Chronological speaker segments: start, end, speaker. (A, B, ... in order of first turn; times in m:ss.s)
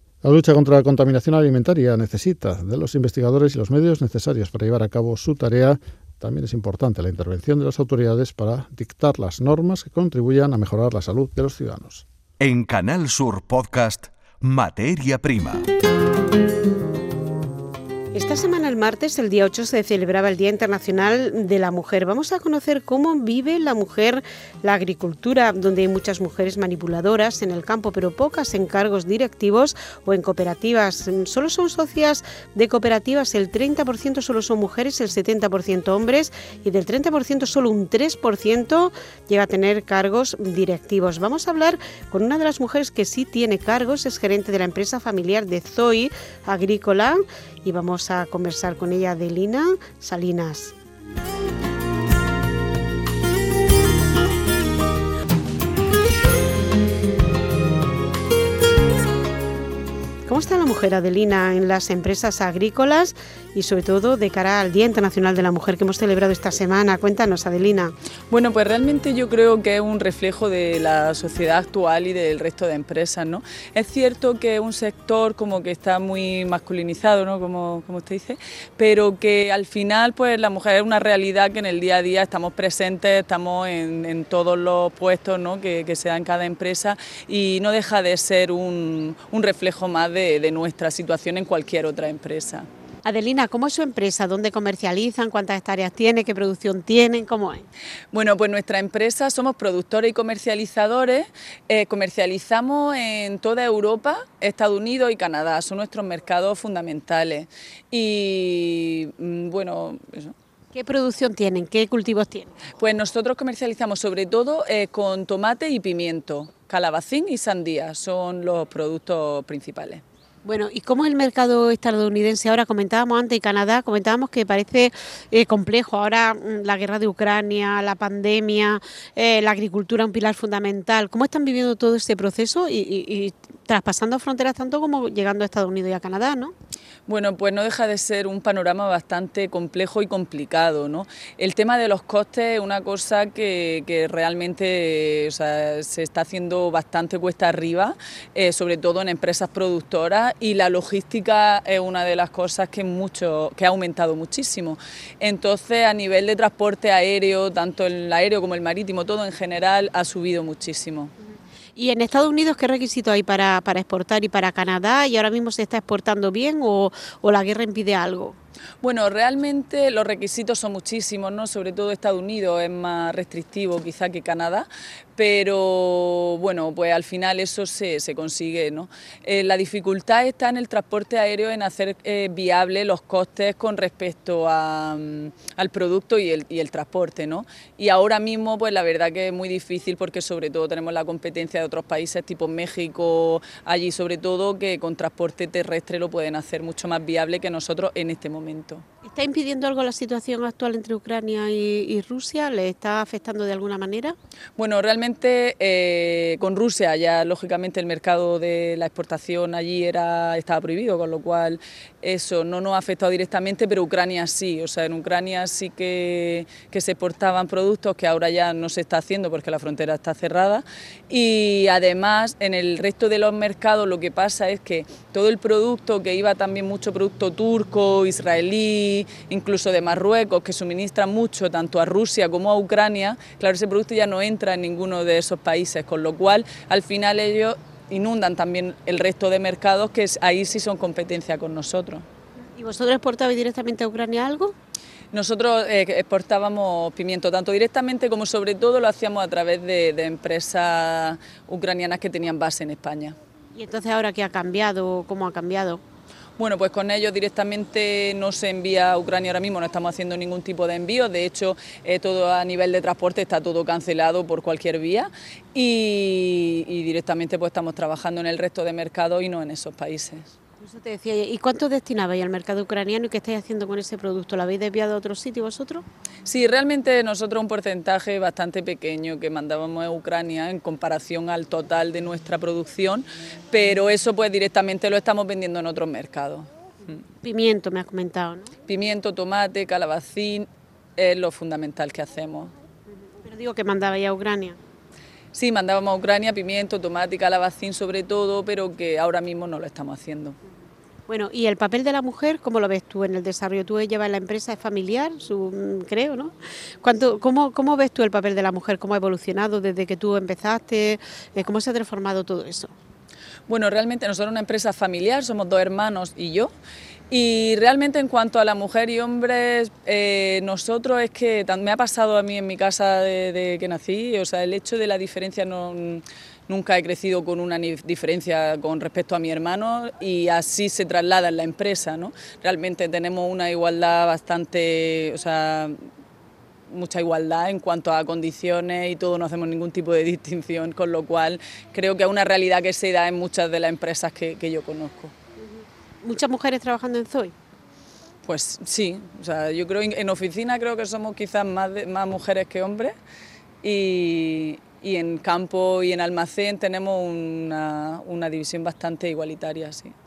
0:00.2-0:12.1 A
0:12.4-0:15.7 B
0:18.1-0:50.8 C
1:00.3-1:07.9 C
1:08.3-1:32.7 D
1:33.0-1:37.7 C
1:38.1-1:50.4 D
1:50.7-1:52.6 C
1:52.8-2:00.0 D
2:00.4-2:16.5 C
2:17.1-2:41.1 D
2:41.8-2:48.4 C
2:48.8-3:18.8 D
3:19.0-3:24.2 C
3:24.6-4:02.1 D
4:02.6-4:04.6 C
4:05.1-4:13.2 D
4:13.6-4:15.8 C
4:16.4-4:30.3 D
4:30.6-4:35.8 C
4:36.2-4:47.0 D
4:47.2-4:48.5 C
4:48.7-4:52.5 D
4:53.0-4:54.6 C
4:55.3-5:00.4 D
5:01.1-5:12.8 C
5:13.5-5:16.5 D
5:17.1-5:35.8 D
5:36.7-5:45.1 D
5:45.4-5:47.3 C
5:48.2-5:53.0 D
5:53.6-6:00.0 D